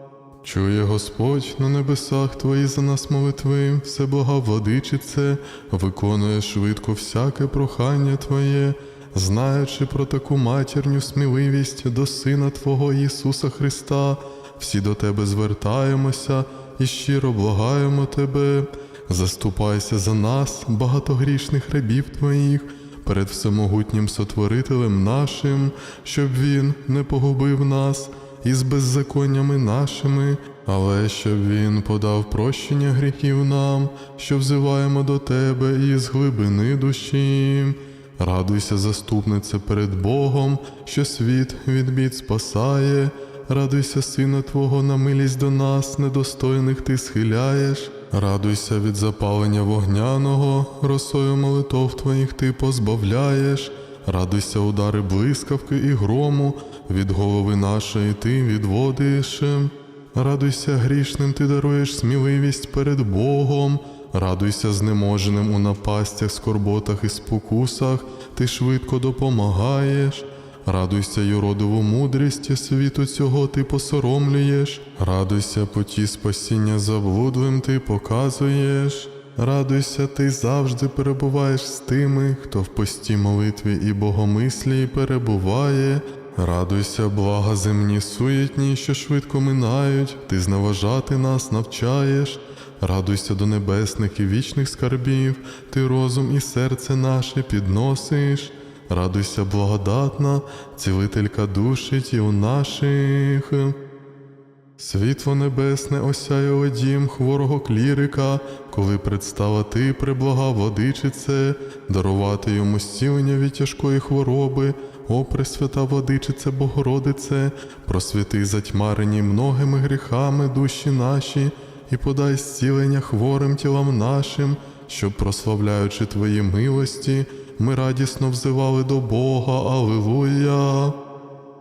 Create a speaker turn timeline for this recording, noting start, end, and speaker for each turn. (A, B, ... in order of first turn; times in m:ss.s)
0:00.4-1:43.7 A
1:44.8-2:11.0 A